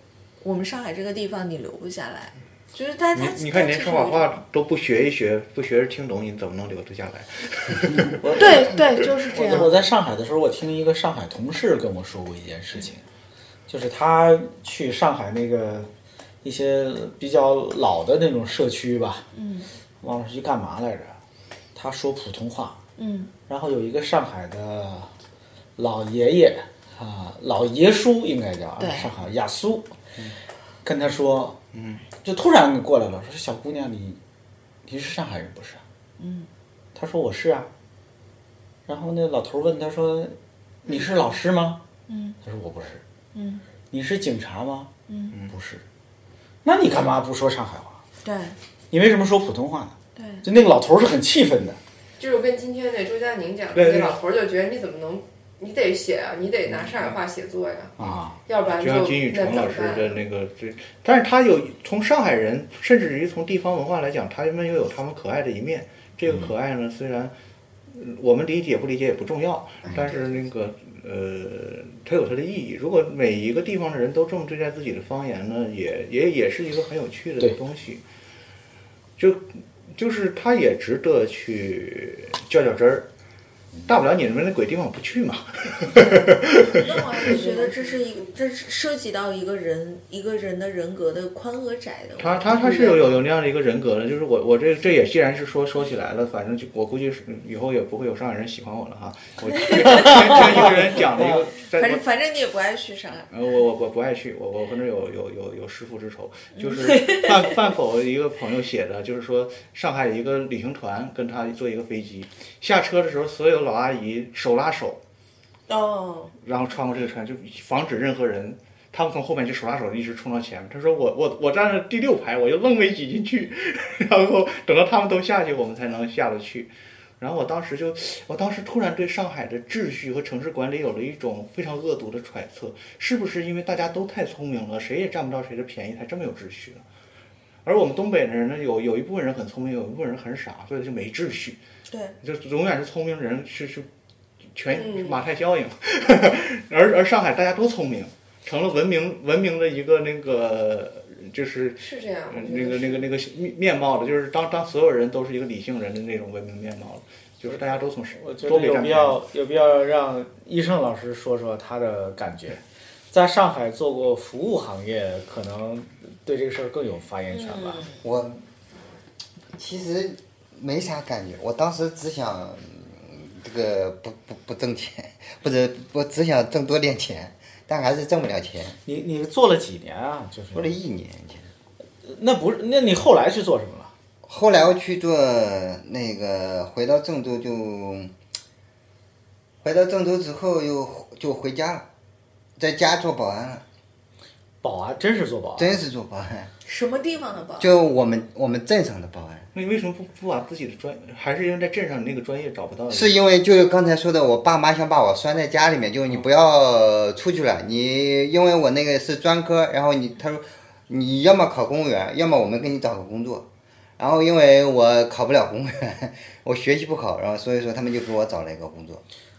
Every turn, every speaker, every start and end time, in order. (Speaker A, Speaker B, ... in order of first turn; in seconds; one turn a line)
Speaker A: 0.4-4.3
Speaker B: 3.1-8.7
Speaker C: 8.2-8.8
Speaker A: 8.4-9.7
Speaker C: 9.3-13.0
Speaker C: 13.7-15.9
Speaker C: 16.4-19.3
Speaker A: 19.3-19.7
Speaker C: 20.0-21.2
Speaker C: 21.8-22.8
Speaker A: 23.0-23.3
Speaker C: 23.5-25.1
Speaker C: 25.8-29.9
Speaker A: 28.8-29.1
Speaker C: 30.8-31.6
Speaker B: 31.7-32.1
Speaker C: 32.2-34.2
Speaker C: 34.9-35.8
Speaker A: 36.2-36.5
Speaker C: 37.0-37.7
Speaker C: 38.9-41.8
Speaker A: 42.1-42.4
Speaker C: 42.4-43.0
Speaker A: 43.3-43.6
Speaker C: 43.9-44.9
Speaker A: 45.1-45.4
Speaker C: 45.5-45.8
Speaker C: 46.6-48.0
Speaker A: 48.2-48.6
Speaker C: 48.9-51.8
Speaker A: 50.2-50.5
Speaker D: 52.2-60.2
Speaker B: 53.7-54.2
Speaker B: 56.7-57.2
Speaker C: 58.0-58.4
Speaker B: 58.7-67.3
Speaker B: 67.9-78.0
Speaker B: 79.2-83.1
Speaker B: 83.9-87.3
Speaker A: 86.0-93.2
Speaker D: 87.3-88.2
Speaker B: 92.2-102.0
Speaker A: 99.8-100.0
Speaker A: 101.8-103.3
Speaker B: 103.3-115.0
Speaker A: 106.6-107.5
Speaker A: 115.7-116.3
Speaker B: 116.4-136.8
Speaker B: 137.7-141.6
Speaker A: 141.9-142.2
Speaker B: 142.2-143.9
Speaker B: 144.5-159.2
Speaker D: 144.7-145.2
Speaker D: 151.8-153.1
Speaker C: 158.2-167.8
Speaker A: 167.3-168.0
Speaker E: 168.0-168.4
Speaker E: 169.5-178.8
Speaker C: 178.8-180.8
Speaker E: 180.5-181.4
Speaker C: 182.0-183.9
Speaker E: 184.2-188.1
Speaker E: 189.6-191.9
Speaker E: 192.6-193.6
Speaker C: 194.6-195.8
Speaker E: 195.6-196.5
Speaker A: 196.7-197.8
Speaker E: 197.6-199.5
Speaker B: 199.5-203.1
Speaker E: 202.9-213.5
Speaker E: 214.0-219.0